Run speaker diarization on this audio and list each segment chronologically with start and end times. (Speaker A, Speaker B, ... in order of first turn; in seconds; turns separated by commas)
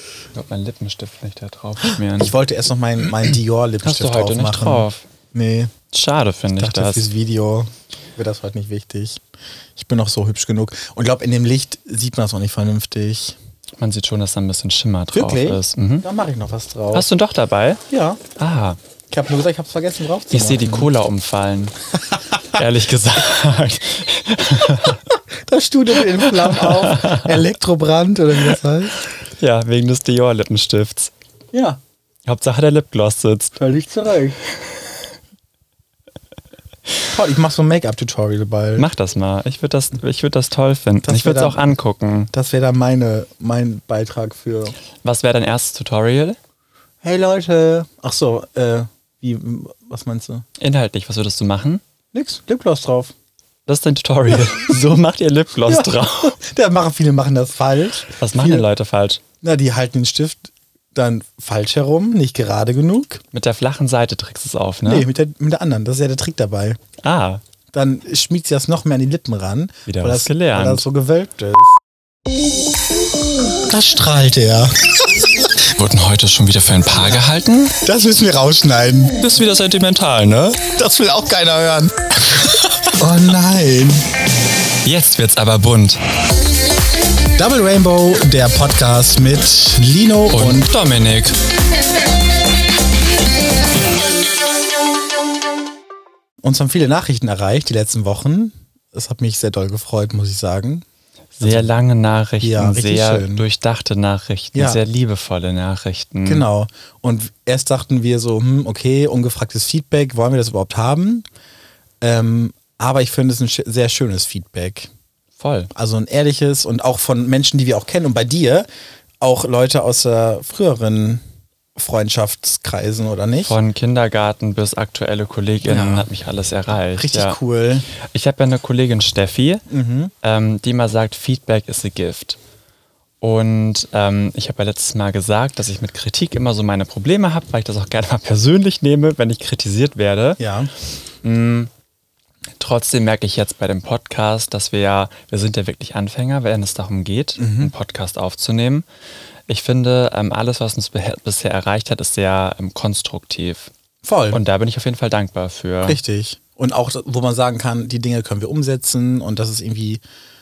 Speaker A: 0.3-2.3, Speaker B: 2.1-5.7, Speaker A: 3.8-5.1, Speaker A: 5.9-7.1, Speaker B: 6.6-9.2, Speaker B: 9.8-13.4, Speaker A: 13.8-16.1, Speaker B: 15.1-17.1, Speaker A: 16.9-17.8, Speaker B: 17.9-18.2, Speaker A: 18.4-18.8, Speaker B: 19.1-20.9, Speaker A: 20.3-21.8, Speaker A: 22.5-25.1, Speaker B: 25.1-29.0, Speaker A: 26.0-27.5, Speaker A: 29.4-31.1, Speaker B: 31.5-31.8, Speaker A: 32.3-33.6, Speaker B: 33.6-34.4, Speaker B: 37.1-38.9, Speaker A: 38.8-42.3, Speaker B: 41.0-41.7, Speaker B: 42.3-44.8, Speaker A: 45.0-46.4, Speaker B: 47.0-50.5, Speaker A: 50.6-51.8, Speaker B: 52.1-53.1, Speaker A: 53.7-56.4, Speaker B: 55.7-58.7, Speaker A: 58.2-59.2, Speaker B: 59.4-63.2, Speaker A: 63.3-65.1, Speaker B: 64.8-66.8, Speaker A: 67.0-67.4, Speaker B: 67.7-71.8, Speaker A: 69.9-70.9, Speaker B: 73.7-75.3, Speaker A: 75.8-77.8, Speaker B: 77.8-79.2, Speaker A: 79.2-80.6, Speaker B: 80.7-84.0, Speaker A: 84.8-86.0, Speaker B: 87.4-90.7, Speaker A: 90.3-91.4, Speaker B: 96.4-100.8, Speaker A: 101.4-106.5, Speaker B: 101.4-101.7, Speaker B: 102.4-103.5, Speaker B: 104.5-104.8, Speaker B: 106.2-111.2, Speaker B: 112.0-114.9, Speaker A: 115.4-115.7, Speaker B: 115.8-118.7, Speaker B: 119.2-121.2, Speaker B: 121.8-123.6, Speaker A: 123.5-127.4, Speaker B: 125.7-126.1, Speaker B: 127.0-127.9, Speaker A: 128.0-129.6, Speaker B: 129.7-130.1, Speaker A: 130.2-132.4, Speaker A: 133.2-140.4, Speaker B: 140.4-140.7, Speaker A: 141.2-141.7, Speaker A: 142.6-148.9, Speaker B: 147.4-147.7, Speaker A: 149.5-153.7, Speaker B: 154.0-154.4, Speaker A: 154.3-156.0, Speaker B: 155.8-160.0